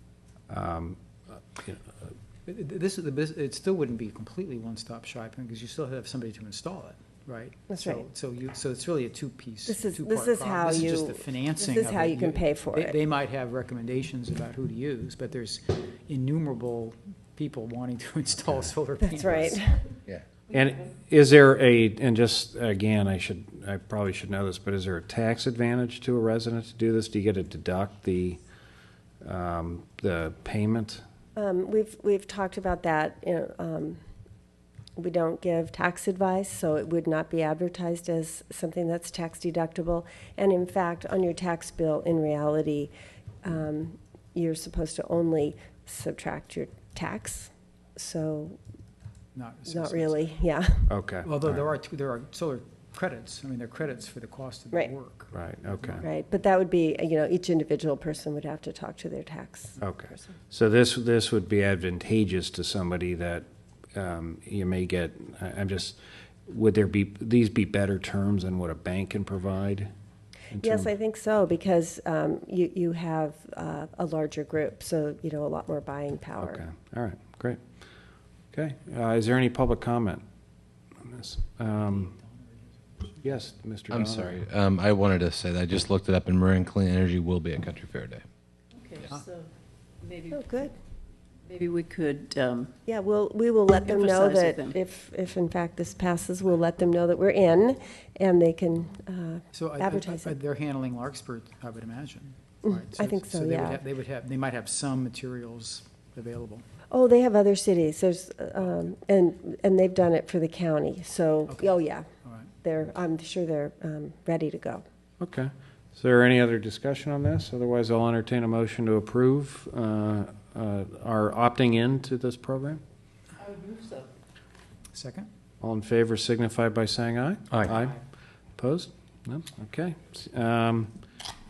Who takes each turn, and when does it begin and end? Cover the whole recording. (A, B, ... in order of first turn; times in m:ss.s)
0:00.5-0:01.0 A
0:01.5-0:01.8 A
0:02.4-0:19.6 B
0:07.7-0:08.0 C
0:09.6-0:13.0 C
0:19.1-0:19.8 C
0:20.5-0:28.4 A
0:29.2-0:31.0 A
0:31.4-0:34.0 C
0:35.0-0:42.9 C
0:43.4-0:48.6 C
0:49.3-0:50.2 B
0:49.7-0:50.9 C
0:50.9-0:51.6 A
0:51.2-0:56.0 B
0:55.3-0:56.0 A
0:56.0-1:00.3 C
0:59.8-1:03.4 A
1:03.9-1:09.9 A
1:10.5-1:10.9 A
1:10.6-1:16.6 C
1:16.4-1:17.6 A
1:18.5-1:20.2 A
1:21.0-1:22.1 A
1:21.8-1:23.4 B
1:23.2-1:24.4 A
1:23.9-1:28.2 D
1:28.9-1:29.5 E
1:30.0-1:30.3 E
1:30.3-1:30.7 C
1:31.4-1:32.7 E
1:32.9-1:40.3 C
1:33.8-1:34.7 E
1:39.5-1:46.6 B
1:42.6-1:43.8 C
1:46.9-1:52.1 C
1:52.2-1:52.5 B
1:52.6-1:54.8 C
1:55.2-2:02.8 A
2:03.5-2:04.0 E
2:04.9-2:05.3 B
2:05.6-2:08.0 A
2:07.6-2:07.9 B
2:08.6-2:10.9 A